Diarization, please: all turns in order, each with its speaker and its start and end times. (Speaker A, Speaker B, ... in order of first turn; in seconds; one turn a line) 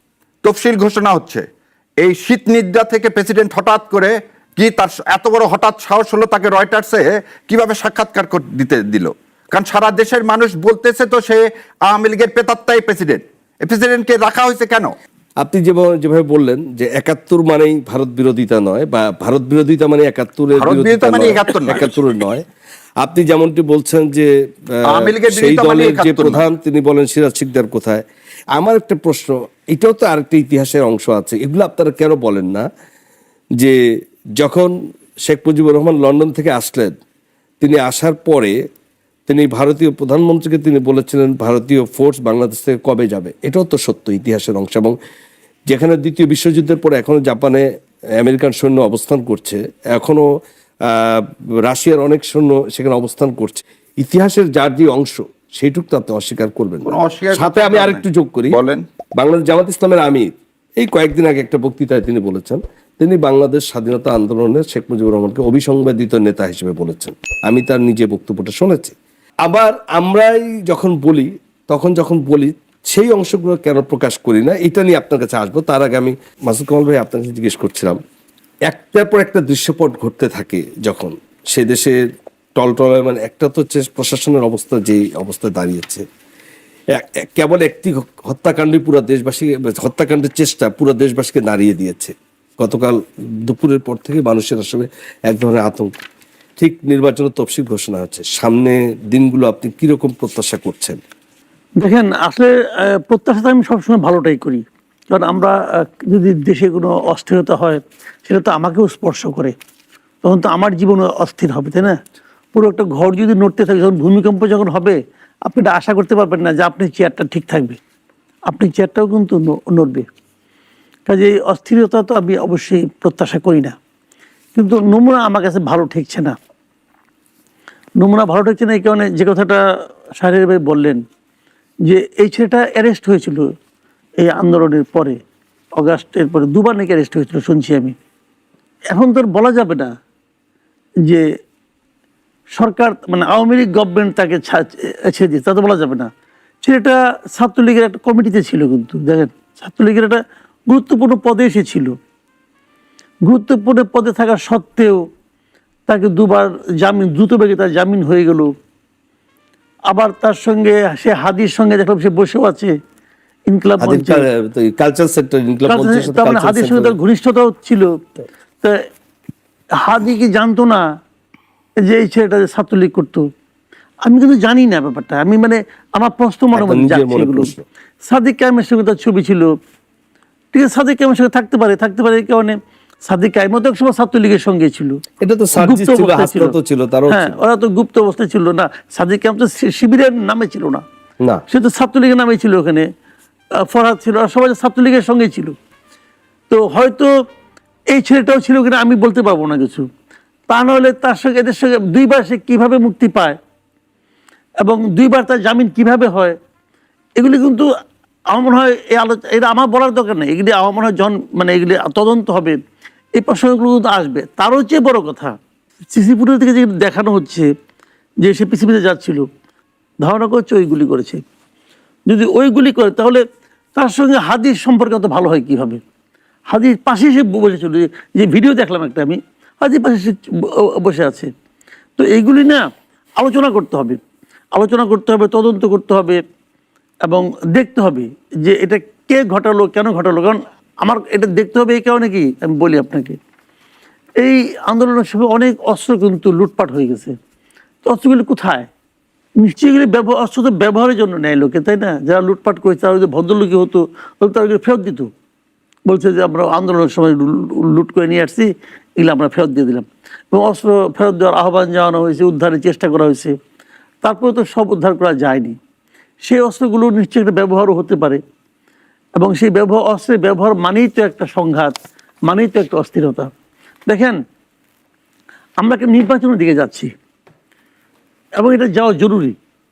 Speaker A: 0.4-1.4
Speaker A: 2.0-14.9
Speaker B: 15.4-22.4
Speaker A: 20.6-21.9
Speaker B: 23.0-28.0
Speaker A: 24.9-26.4
Speaker B: 28.6-32.7
Speaker B: 34.4-37.0
Speaker B: 37.6-38.6
Speaker B: 39.3-45.0
Speaker B: 45.7-47.7
Speaker B: 48.2-50.3
Speaker B: 50.9-58.6
Speaker A: 56.9-58.8
Speaker B: 59.2-78.0
Speaker B: 78.7-82.0
Speaker B: 82.6-86.0
Speaker B: 86.9-95.9
Speaker B: 96.6-101.0
Speaker C: 101.8-109.5
Speaker C: 110.2-112.0
Speaker C: 112.5-117.8
Speaker C: 118.5-120.1
Speaker C: 121.1-123.8
Speaker C: 124.6-126.4
Speaker C: 128.0-129.6
Speaker C: 130.2-131.0
Speaker C: 131.8-133.5
Speaker C: 134.2-135.2
Speaker C: 135.8-137.9
Speaker C: 138.9-139.9
Speaker C: 142.6-146.1
Speaker C: 146.6-152.0
Speaker C: 153.2-155.1
Speaker C: 155.9-158.5
Speaker C: 159.9-162.7
Speaker C: 163.5-164.3
Speaker B: 163.8-167.0
Speaker C: 165.7-168.0
Speaker C: 169.8-170.8
Speaker C: 171.8-173.3
Speaker C: 174.0-177.5
Speaker B: 176.6-177.6
Speaker C: 178.1-179.5
Speaker C: 180.5-185.0
Speaker B: 185.2-187.4
Speaker C: 185.6-186.5
Speaker C: 187.1-190.8
Speaker C: 191.5-192.9
Speaker C: 193.6-195.6
Speaker C: 196.5-197.1
Speaker C: 197.9-199.9
Speaker C: 200.5-203.4
Speaker C: 204.6-206.4
Speaker C: 207.2-207.7
Speaker C: 208.3-212.6
Speaker C: 213.2-215.3
Speaker C: 215.9-217.5
Speaker C: 218.2-219.3
Speaker C: 220.0-221.2
Speaker C: 222.1-223.2
Speaker C: 223.8-225.8
Speaker C: 226.5-231.3
Speaker C: 232.0-232.7
Speaker C: 233.2-234.0
Speaker C: 234.6-236.2
Speaker C: 237.1-243.2
Speaker C: 244.2-247.1
Speaker C: 247.8-248.7
Speaker C: 249.4-255.1
Speaker C: 255.9-263.3
Speaker C: 264.0-265.6
Speaker C: 266.2-268.2
Speaker C: 269.2-271.8
Speaker C: 272.3-273.3
Speaker C: 273.9-274.2
Speaker C: 275.6-276.9
Speaker C: 278.4-279.4